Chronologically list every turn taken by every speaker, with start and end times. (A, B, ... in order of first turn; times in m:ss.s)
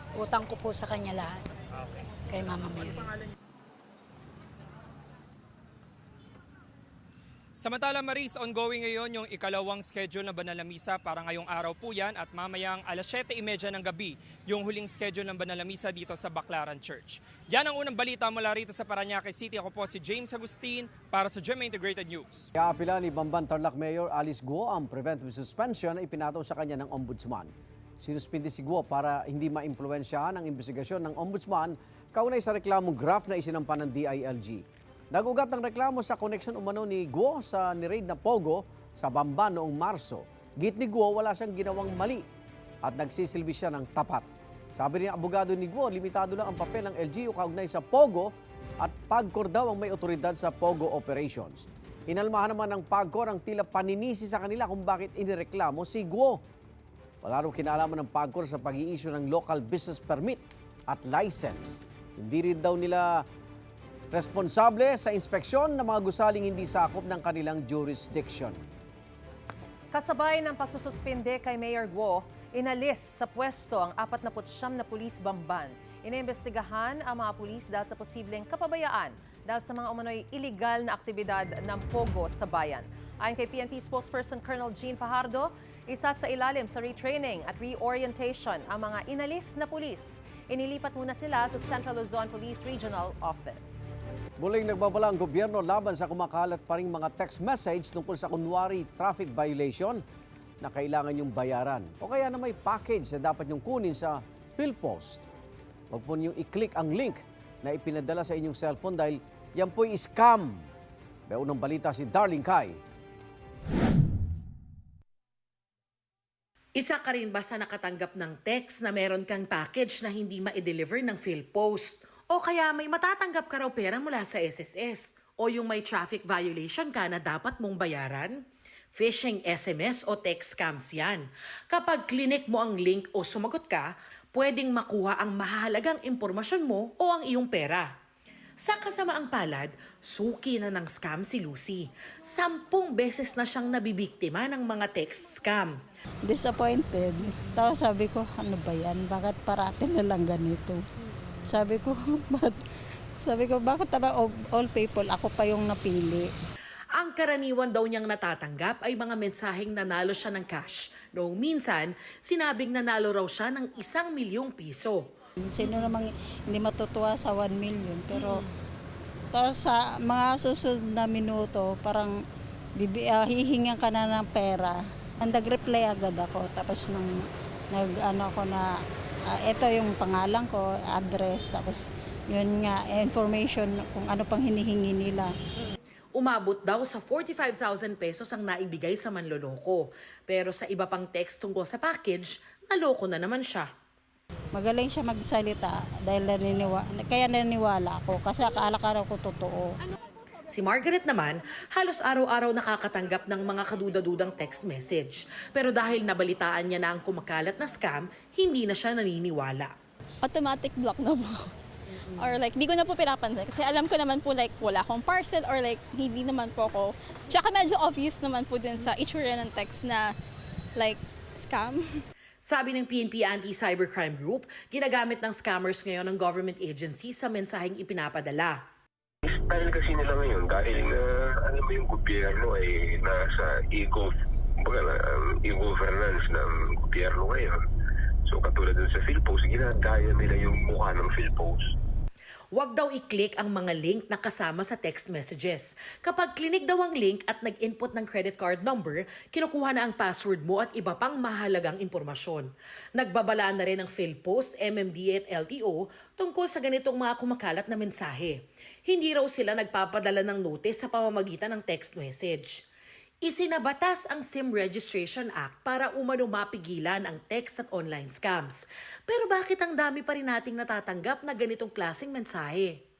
0:00.2-0:01.4 A
0:02.3-0:03.1 A
0:07.6-0:22.5 B
0:22.6-0:42.2 C
0:42.8-0:56.4 C
0:57.2-1:03.2 C
1:04.1-1:08.6 C
1:09.9-1:34.0 D
1:34.4-1:40.0 C
1:40.6-1:45.3 C
1:45.9-1:50.7 C
1:51.3-1:52.8 C
1:56.8-2:08.4 E
2:08.9-2:17.9 E
2:18.6-2:25.8 E
2:26.2-2:30.8 F
2:31.4-2:32.6 F
2:33.2-2:36.3 F
2:37.0-2:45.0 E
2:45.4-2:48.4 F
2:49.3-2:52.2 F
2:52.8-2:57.1 F
2:57.7-2:58.7 F
2:59.4-3:05.3 F
3:06.1-3:13.7 E
3:14.5-3:19.7 F
3:20.5-3:29.7 E
3:30.2-3:31.6 G
3:32.1-3:40.1 G
3:40.8-3:42.0 G
3:42.4-3:48.6 E
3:49.2-3:57.6 H
3:58.3-4:01.6 H
4:02.5-4:22.6 E
4:23.2-4:32.8 E